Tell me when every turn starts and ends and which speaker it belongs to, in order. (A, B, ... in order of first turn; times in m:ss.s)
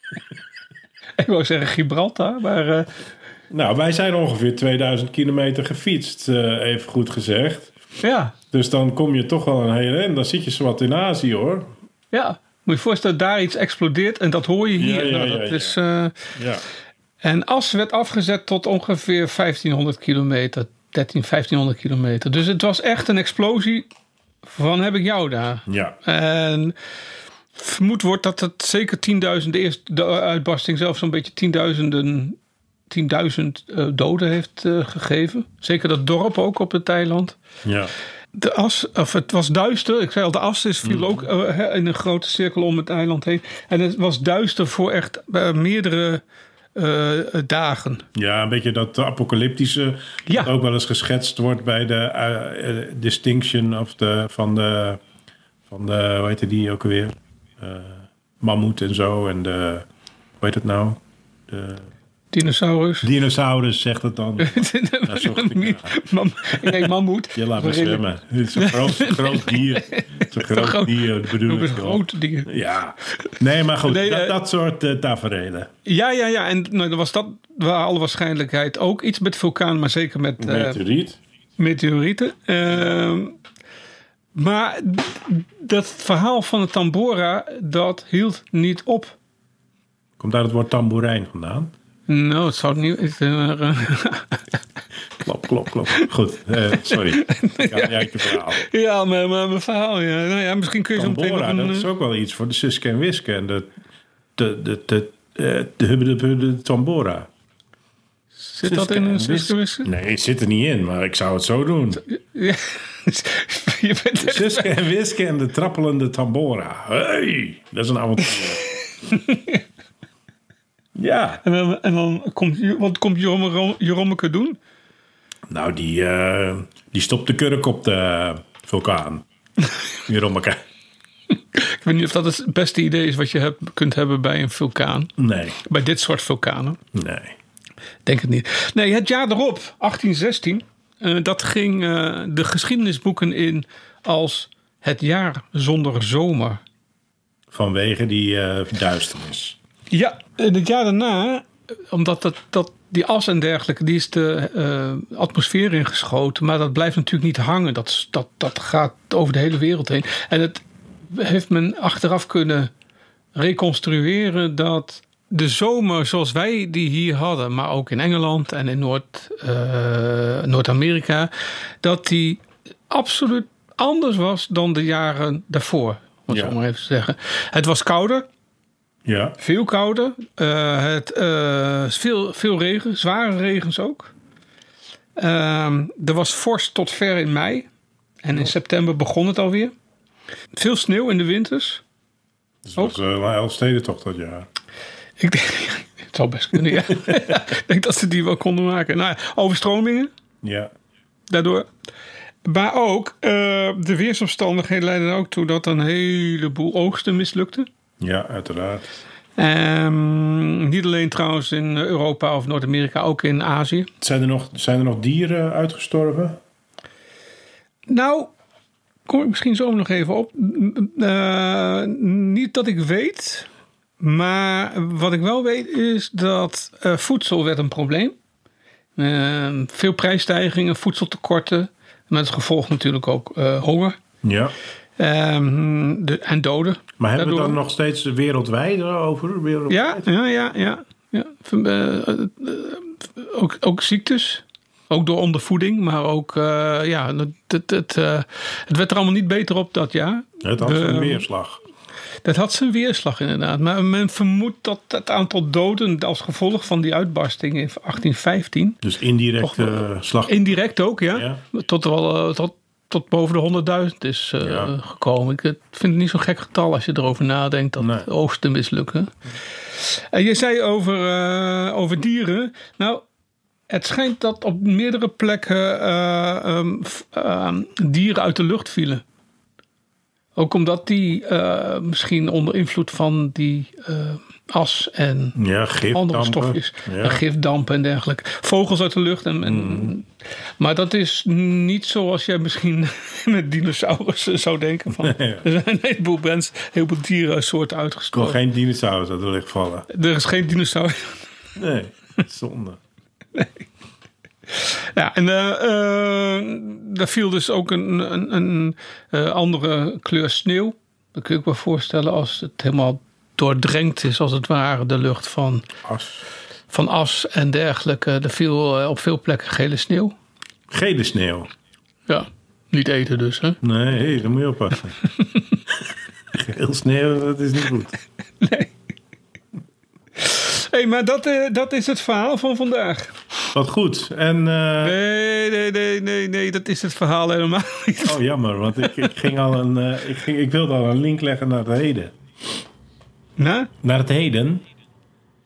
0:01.2-0:02.9 A
0:03.5-0:07.7 B
0:08.0-0:08.3 A
0:08.5-0:11.7 B
0:12.1-0:16.3 A
0:14.8-0:15.8 B
0:16.3-0:16.6 B
0:17.2-0:23.9 A
0:24.4-0:26.7 A
0:25.7-0:26.0 B
0:27.5-0:32.4 A
0:32.9-0:37.4 A
0:37.6-0:37.9 B
0:38.3-0:46.2 A
0:40.8-0:41.2 B
0:46.7-0:48.0 A
0:48.1-0:55.0 B
0:55.7-0:59.8 B
1:00.4-1:01.9 B
1:02.3-1:03.1 A
1:03.0-1:05.9 B
1:04.4-1:08.0 A
1:06.6-1:15.7 B
1:08.5-1:12.5 A
1:13.8-1:14.4 A
1:15.8-1:20.8 A
1:20.4-1:21.2 B
1:21.6-1:23.3 A
1:24.3-1:29.2 A
1:30.2-1:31.7 B
1:32.1-1:34.4 A
1:35.2-1:38.6 B
1:36.8-1:41.9 A
1:41.0-1:43.7 B
1:44.4-1:47.3 B
1:48.4-1:49.9 A
1:48.6-1:52.0 B
1:52.1-1:54.7 A
1:54.2-1:58.8 B
1:59.0-1:59.6 A
2:01.0-2:01.4 B
2:01.4-2:04.6 A
2:05.5-2:09.2 B
2:10.0-2:10.6 B
2:11.5-2:16.8 A
2:15.2-2:15.6 B
2:16.9-2:17.4 B
2:18.0-2:26.6 A
2:27.5-2:29.6 B
2:29.9-2:42.7 A
2:43.3-2:51.3 A
2:51.8-2:58.3 A
2:56.3-2:56.6 B
2:59.0-2:59.4 B
2:59.4-3:04.1 A
3:05.2-3:07.7 A
3:08.2-3:09.7 A
3:10.5-3:11.8 A
3:12.6-3:14.5 B
3:15.2-3:20.1 A
3:20.4-3:20.7 B
3:21.3-3:21.7 A
3:22.4-3:27.7 A
3:28.0-3:28.9 B
3:29.4-3:33.9 A
3:34.0-3:36.4 B
3:37.9-3:38.3 A
3:39.1-3:43.5 A
3:44.0-3:48.1 A
3:49.0-3:54.0 A
3:54.2-3:54.5 B
3:55.0-3:57.6 A
3:57.0-4:00.1 B
3:59.7-4:11.2 A
4:10.4-4:11.6 B
4:12.2-4:18.8 A
4:18.8-4:20.4 B
4:19.4-4:29.1 A
4:21.1-4:21.4 B
4:24.4-4:24.7 B
4:27.8-4:28.0 B
4:29.7-4:33.0 A
4:33.7-4:39.0 A
4:40.4-4:45.4 A
4:45.4-4:47.2 B
4:45.9-4:50.1 A
4:49.4-4:49.9 B
4:50.6-4:58.4 A
4:55.0-4:55.4 B
4:58.1-4:59.9 B
4:59.9-5:01.1 A
5:01.6-5:02.8 B
5:04.5-5:15.6 A
5:15.8-5:16.2 B
5:16.7-5:20.1 A
5:20.7-5:21.5 B
5:22.1-5:23.6 A
5:23.6-5:25.0 B
5:26.3-5:28.0 B
5:28.4-5:28.7 A
5:30.2-5:33.2 A
5:33.5-5:35.0 B
5:34.8-5:38.2 A
5:38.0-5:42.2 B
5:38.7-5:39.2 A
5:43.4-5:43.7 A
5:43.8-5:44.6 B